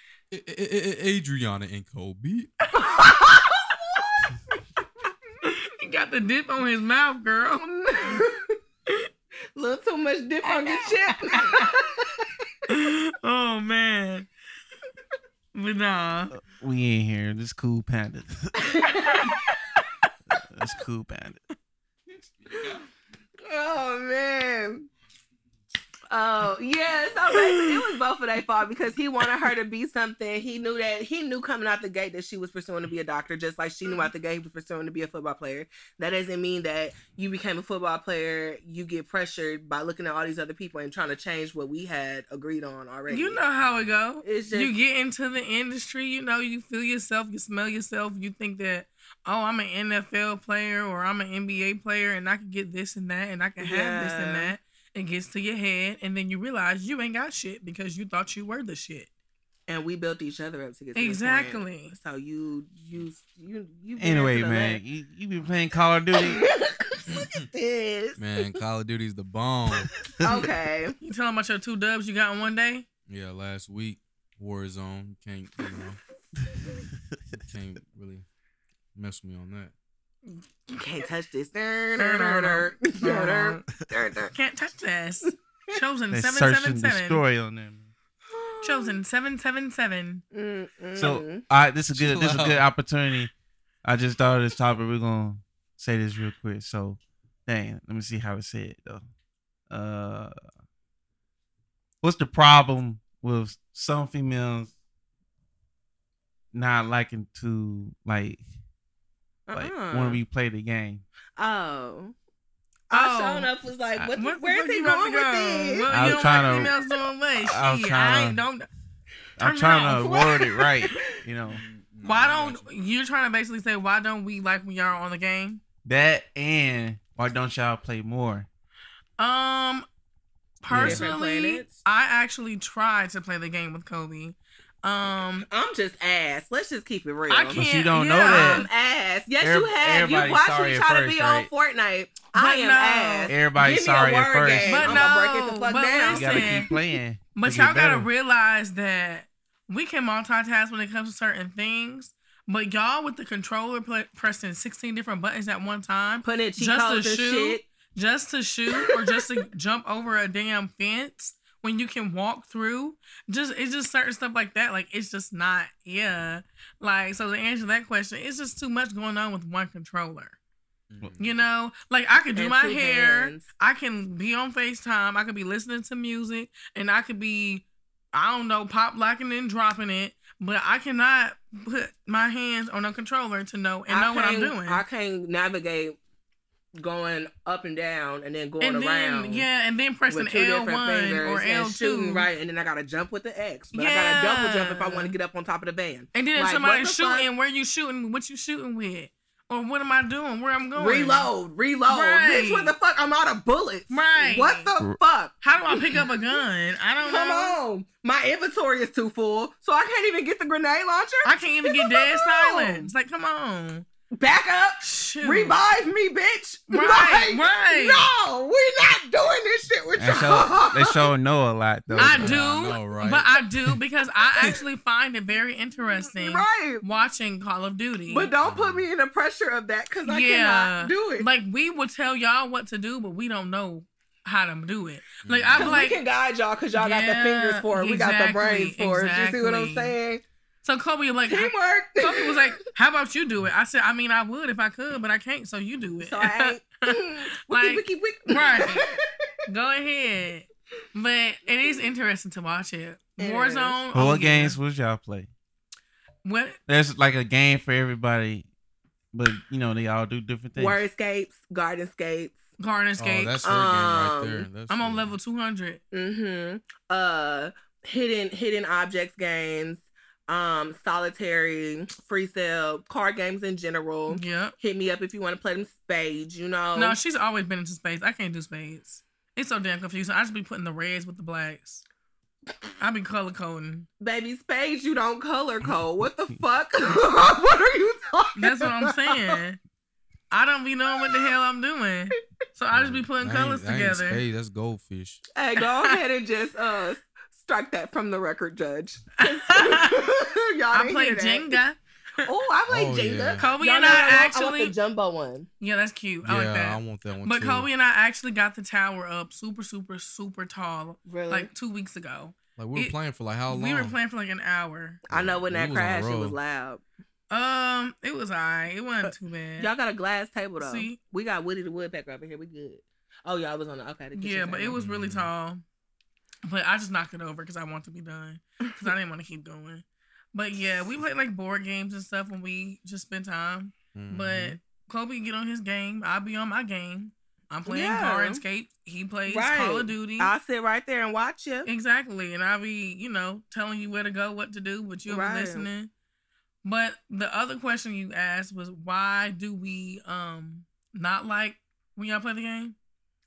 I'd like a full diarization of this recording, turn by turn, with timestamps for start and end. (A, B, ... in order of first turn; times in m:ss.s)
0:00.3-0:02.5 A
0:02.8-0:04.2 B
0:05.4-0:08.2 C
0:07.6-0:08.6 B
0:09.6-0:12.3 B
0:10.4-0:11.7 C
0:12.7-0:14.3 C
0:15.6-0:16.3 C
0:16.3-0:18.7 D
0:18.6-0:19.4 B
0:19.1-0:19.4 C
0:20.3-0:21.4 D
0:23.4-0:24.9 B
0:26.1-0:43.4 B
0:27.3-0:27.8 C
0:43.1-0:59.1 C
0:44.2-0:44.8 B
0:53.6-0:54.6 B
0:59.7-1:04.8 B
1:01.0-1:02.0 C
1:04.0-1:06.5 D
1:06.2-1:08.5 B
1:08.2-1:09.9 A
1:10.2-1:11.0 B
1:11.0-1:12.8 C
1:13.1-1:16.0 A
1:17.4-1:18.3 A
1:19.0-1:19.7 A
1:20.7-1:24.3 B
1:22.0-1:23.6 C
1:24.3-1:27.2 C
1:26.1-1:27.9 D
1:28.3-1:29.0 B
1:28.6-1:30.2 C
1:30.3-1:31.4 B
1:31.0-1:33.3 D
1:31.9-1:32.7 A
1:33.8-1:39.0 D
1:39.7-1:40.4 D
1:42.0-1:44.7 D
1:46.5-1:48.4 D
1:49.5-1:50.2 B
1:49.5-1:51.0 D
1:51.4-1:52.2 B
1:52.9-1:56.7 B
1:52.9-1:53.5 C
1:54.2-1:58.7 C
1:55.9-1:56.7 D
1:57.4-1:58.4 D
1:59.4-2:01.6 D
1:59.4-2:00.3 C
2:00.0-2:01.0 B
2:01.5-2:02.7 A
2:02.0-2:05.6 C
2:05.8-2:08.5 D
2:09.2-2:09.9 C
2:10.6-2:15.5 C
2:10.7-2:11.1 D
2:10.8-2:11.8 B
2:15.4-2:17.6 B
2:17.3-2:18.7 C
2:17.6-2:18.7 D
2:18.2-2:26.8 B
2:19.4-2:21.5 D
2:22.3-2:23.3 C
2:23.3-2:25.1 D
2:24.6-2:26.7 C
2:26.1-2:28.1 D
2:27.4-2:50.4 C
2:36.2-2:37.6 B
2:38.8-2:39.2 B
2:50.9-2:51.4 A
2:51.2-3:04.8 C
2:52.4-2:53.5 B
3:03.9-3:06.0 B
3:06.8-3:09.5 B
3:08.6-3:12.3 C
3:10.1-3:17.3 B
3:13.7-3:15.2 C
3:16.1-3:21.3 C
3:20.8-3:26.1 B
3:21.9-3:22.8 C
3:23.9-3:24.7 C
3:25.4-3:27.6 C
3:27.0-3:32.9 B
3:31.2-3:33.9 C
3:34.2-3:41.1 B
3:34.8-3:35.6 C
3:36.7-3:38.1 C
3:40.0-3:42.4 D
3:42.0-3:43.7 A
3:42.0-3:48.3 C
3:46.2-3:46.8 B
3:48.1-3:51.3 B
3:48.4-3:48.9 A
3:50.0-3:56.0 C
3:55.2-3:55.8 A
3:55.6-4:00.2 B
3:56.8-4:00.0 C
4:00.6-4:08.8 C
4:01.3-4:02.6 B
4:06.0-4:09.0 B
4:09.5-4:14.6 C
4:13.2-4:13.8 B
4:13.9-4:15.3 D
4:16.2-4:16.6 C
4:16.7-4:18.5 D
4:19.1-4:20.8 D
4:20.6-4:22.4 B
4:22.6-4:23.4 C
4:23.0-4:25.2 A
4:23.4-4:24.5 B
4:24.7-4:25.8 C
4:25.9-4:37.0 B
4:34.1-4:34.6 C
4:36.8-4:41.8 C
4:42.8-4:43.9 C
4:44.0-4:49.3 B
4:48.4-4:49.6 C
4:50.3-4:54.2 C
4:52.7-4:55.2 A
4:55.4-5:01.6 B
4:59.2-5:00.0 C
5:00.7-5:02.3 C
5:02.2-5:05.5 B
5:02.7-5:03.5 A
5:03.4-5:04.8 C
5:05.6-5:13.0 C
5:06.2-5:07.7 A
5:11.0-5:11.5 B
5:12.6-5:14.0 A
5:13.5-5:15.0 C
5:15.1-5:16.8 B
5:15.1-5:16.4 A
5:17.3-5:19.7 C
5:19.6-5:24.8 B
5:20.6-5:21.0 C
5:24.2-5:25.6 C
5:24.7-5:25.3 A
5:26.4-5:40.3 C
5:33.9-5:34.6 A
5:37.7-5:38.4 B
5:39.3-5:41.7 B
5:41.7-5:45.9 C
5:45.1-5:45.7 B
5:46.6-5:52.8 C